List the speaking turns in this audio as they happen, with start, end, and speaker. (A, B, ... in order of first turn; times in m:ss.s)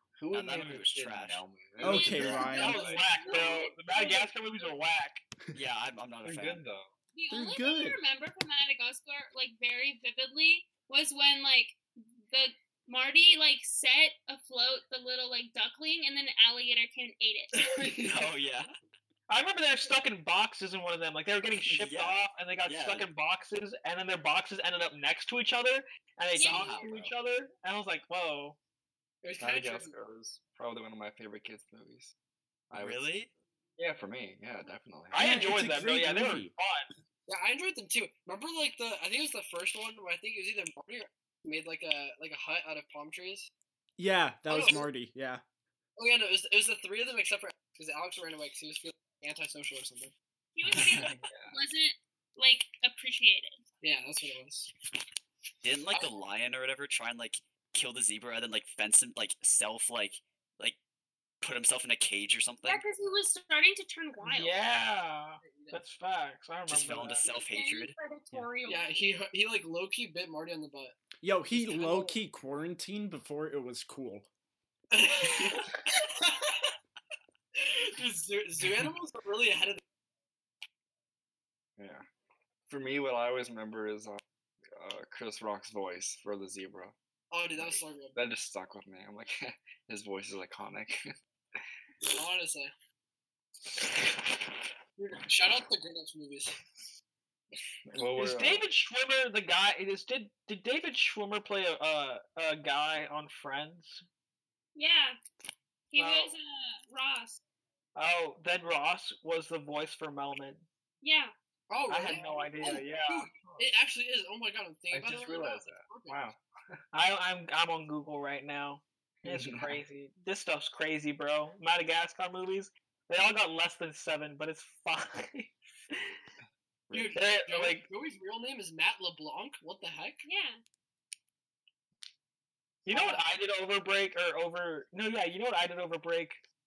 0:00.2-0:03.4 A
0:00.3-0:01.4 B
0:01.8-0:02.8 C
0:01.8-0:04.8 D
0:02.5-0:05.2 E
0:02.8-0:03.5 F
0:05.5-0:06.6 B
0:06.2-0:06.9 A
0:07.1-0:17.6 D
0:07.3-0:08.0 C
0:17.5-0:18.3 F
0:18.0-0:18.7 B
0:19.3-0:28.6 E
0:21.6-0:23.1 B
0:26.3-0:26.9 D
0:26.4-0:27.1 B
0:29.2-0:29.9 F
0:29.4-0:32.1 A
0:32.7-0:33.1 A
0:32.8-0:33.3 B
0:33.8-0:35.4 A
0:35.1-0:36.9 E
0:35.1-0:36.5 C
0:37.3-0:43.5 F
0:44.0-0:45.4 C
0:44.5-0:44.9 F
0:46.0-0:50.1 F
0:50.5-0:53.6 D
0:50.6-0:51.6 A
0:53.8-0:54.7 F
0:55.6-1:00.8 B
1:01.4-1:02.8 B
1:02.6-1:04.6 D
1:04.2-1:07.3 E
1:05.4-1:05.8 F
1:06.7-1:07.9 B
1:07.2-1:08.9 D
1:08.6-1:11.0 F
1:11.2-1:14.3 C
1:11.5-1:12.2 F
1:14.9-1:16.7 F
1:15.2-1:15.5 A
1:17.6-1:19.8 F
1:21.8-1:22.0 A
1:22.7-1:26.9 A
1:27.3-1:28.2 F
1:28.2-1:31.1 A
1:32.1-1:32.7 F
1:35.0-1:36.6 F
1:37.8-1:38.7 A
1:38.2-1:44.0 E
1:44.7-1:45.2 D
1:45.9-1:47.4 D
1:46.0-1:46.3 E
1:48.0-1:50.6 E
1:51.0-1:51.3 D
1:51.7-1:56.2 F
1:51.9-1:53.3 E
1:54.9-1:56.8 A
1:56.9-2:06.2 E
1:59.2-1:59.8 A
2:06.9-2:07.2 A
2:06.9-2:10.2 F
2:07.1-2:07.9 E
2:10.2-2:10.6 D
2:12.8-2:16.4 E
2:12.9-2:13.2 F